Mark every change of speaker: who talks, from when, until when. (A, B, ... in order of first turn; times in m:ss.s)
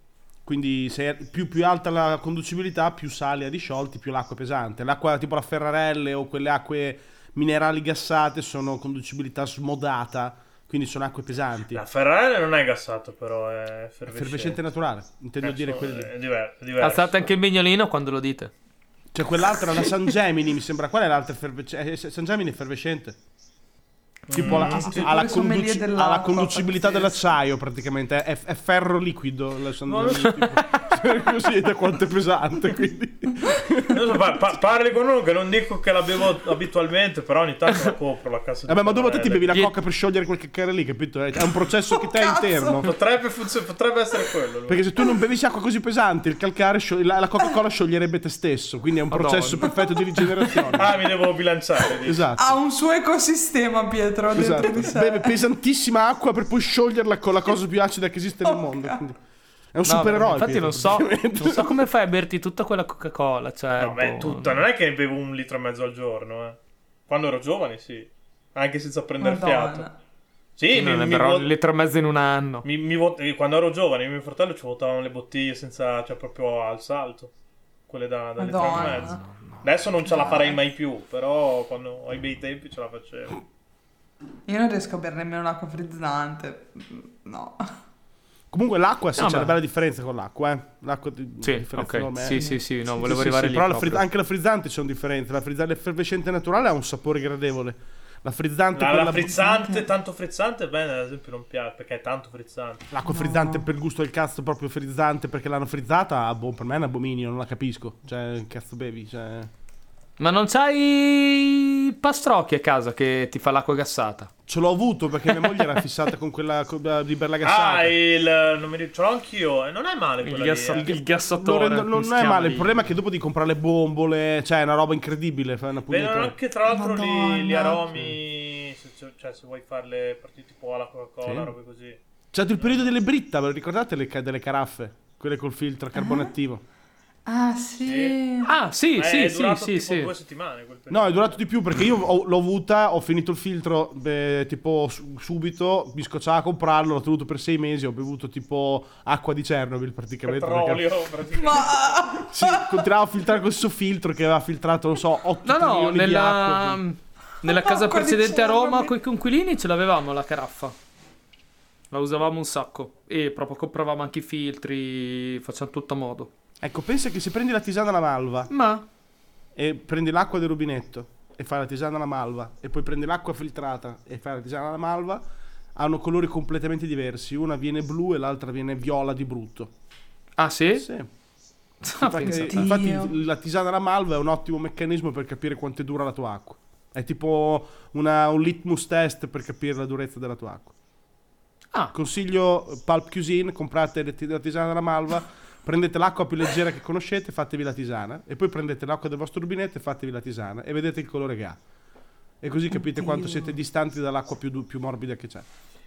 0:00.4-0:11.8 A
0:11.7-0:14.6 B
0:14.1-0:16.1 A
0:15.4-0:17.3 B
0:16.8-0:18.5 C
0:19.1-0:23.2 A
0:24.3-0:25.1 B
0:24.3-0:34.2 A
0:24.4-0:27.3 D
0:29.8-0:30.7 B
0:33.9-0:39.6 B
0:38.7-0:42.9 A
0:41.9-0:42.8 D
0:42.8-0:44.8 B
0:44.7-0:51.1 A
0:49.1-0:49.8 C
0:50.6-0:52.3 B
0:52.0-0:52.6 A
0:52.4-0:55.4 D
0:54.3-0:59.2 A
0:58.4-0:59.0 D
0:59.7-1:01.8 A
0:59.8-1:04.6 C
1:03.8-1:09.9 B
1:09.2-1:10.0 D
1:10.6-1:11.5 B
1:10.7-1:12.6 C
1:12.6-1:17.3 B
1:17.9-1:23.4 B
1:18.4-1:19.2 D
1:24.5-1:27.8 D
1:28.5-1:39.5 A
1:29.2-1:29.6 C
1:31.4-1:34.0 C
1:32.3-1:32.6 D
1:38.7-1:42.8 B
1:39.4-1:39.9 D
1:42.9-1:49.5 A
1:43.0-1:43.6 D
1:50.2-1:54.3 C
1:54.5-1:58.0 A
1:55.3-1:55.7 C
1:57.4-2:00.9 B
2:00.2-2:02.7 C
2:00.7-2:06.3 A
2:05.9-2:12.0 B
2:06.7-2:07.8 D
2:11.2-2:11.5 A
2:12.3-2:16.6 A
2:12.6-2:12.9 B
2:15.9-2:16.3 D
2:17.2-2:18.5 D
2:17.8-2:18.2 B
2:18.4-2:20.1 C
2:19.0-2:21.4 B
2:20.9-2:30.9 A
2:30.2-2:32.2 B
2:31.3-2:32.8 D
2:32.2-2:36.8 A
2:35.4-2:40.7 C
2:37.4-2:38.9 D
2:41.9-2:46.3 C
2:46.6-2:48.5 A
2:48.5-2:48.8 C
2:49.5-2:55.2 A
2:55.7-2:59.7 A
3:00.4-3:00.9 C
3:00.7-3:01.1 A
3:01.9-3:02.4 C
3:01.9-3:10.7 A
3:02.0-3:03.1 D
3:11.9-3:21.6 A
3:22.4-3:25.4 A
3:22.7-3:23.6 D